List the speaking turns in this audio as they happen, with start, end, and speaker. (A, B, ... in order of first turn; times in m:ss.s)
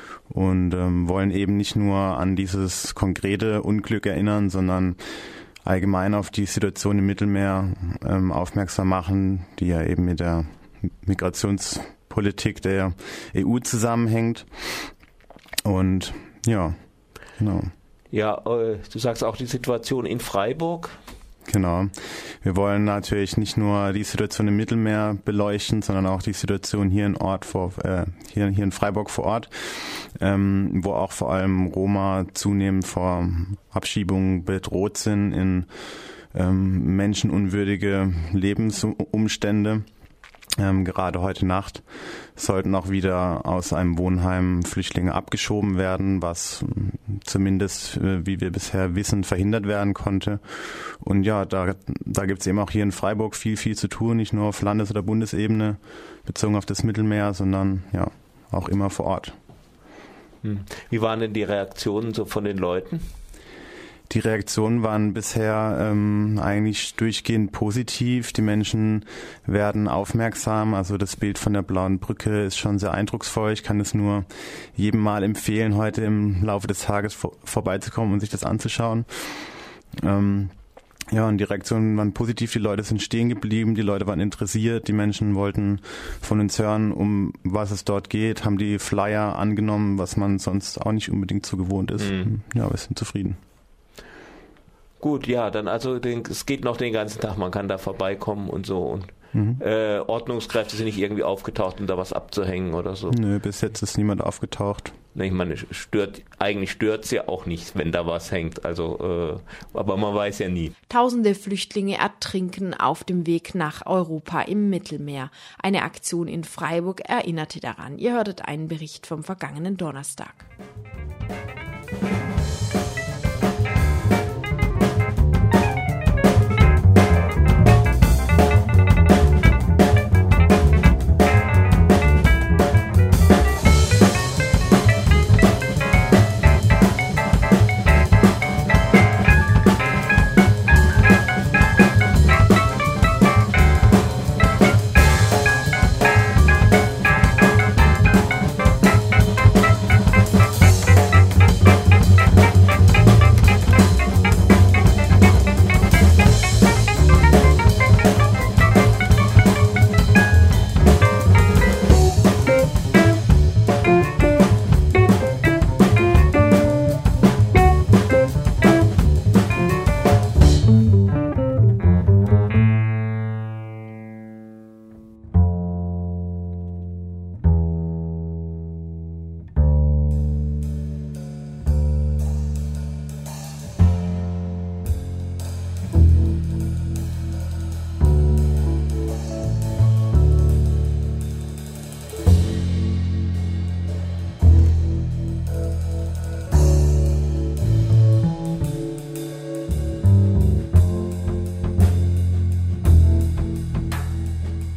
0:00.3-0:14.9 A
0:15.6-0:17.7 A
0:18.1-0:21.0 B
0:21.4-0:39.9 A
0:40.6-0:59.4 A
1:00.4-1:03.1 B
1:04.1-1:20.6 A
1:21.1-1:33.4 A
1:32.0-1:32.3 B
1:35.0-1:43.2 B
1:39.3-1:39.6 A
1:43.1-1:45.0 A
1:45.1-1:50.7 B
1:50.9-2:00.5 C